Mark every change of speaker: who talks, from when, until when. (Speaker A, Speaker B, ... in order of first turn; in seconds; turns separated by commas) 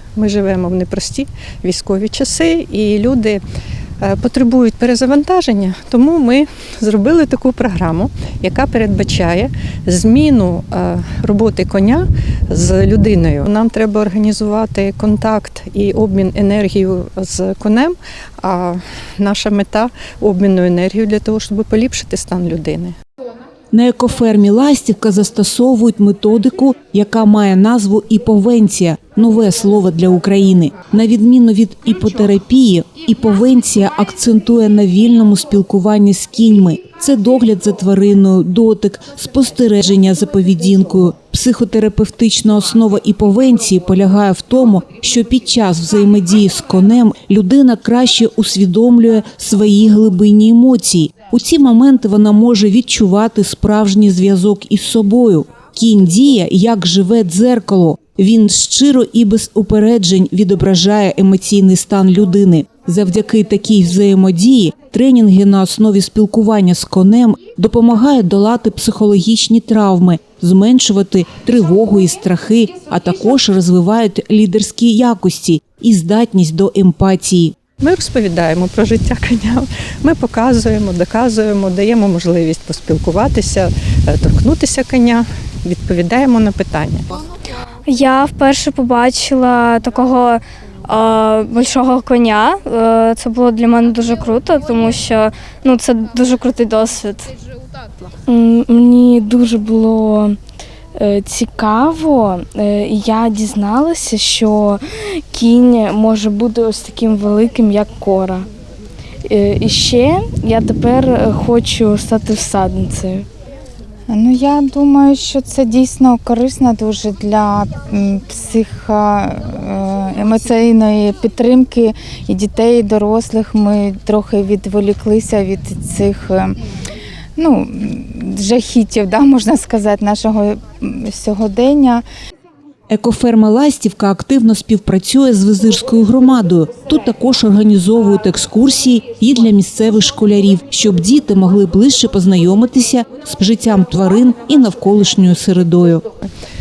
Speaker A: 0.2-3.4, Speaker A: 4.0-22.9, Speaker B: 23.7-77.5, Speaker A: 77.8-87.2, Speaker C: 87.9-97.3, Speaker D: 98.3-100.4, Speaker D: 101.0-108.5, Speaker D: 109.2-113.3, Speaker E: 114.1-126.6, Speaker E: 127.4-132.0, Speaker B: 132.9-146.0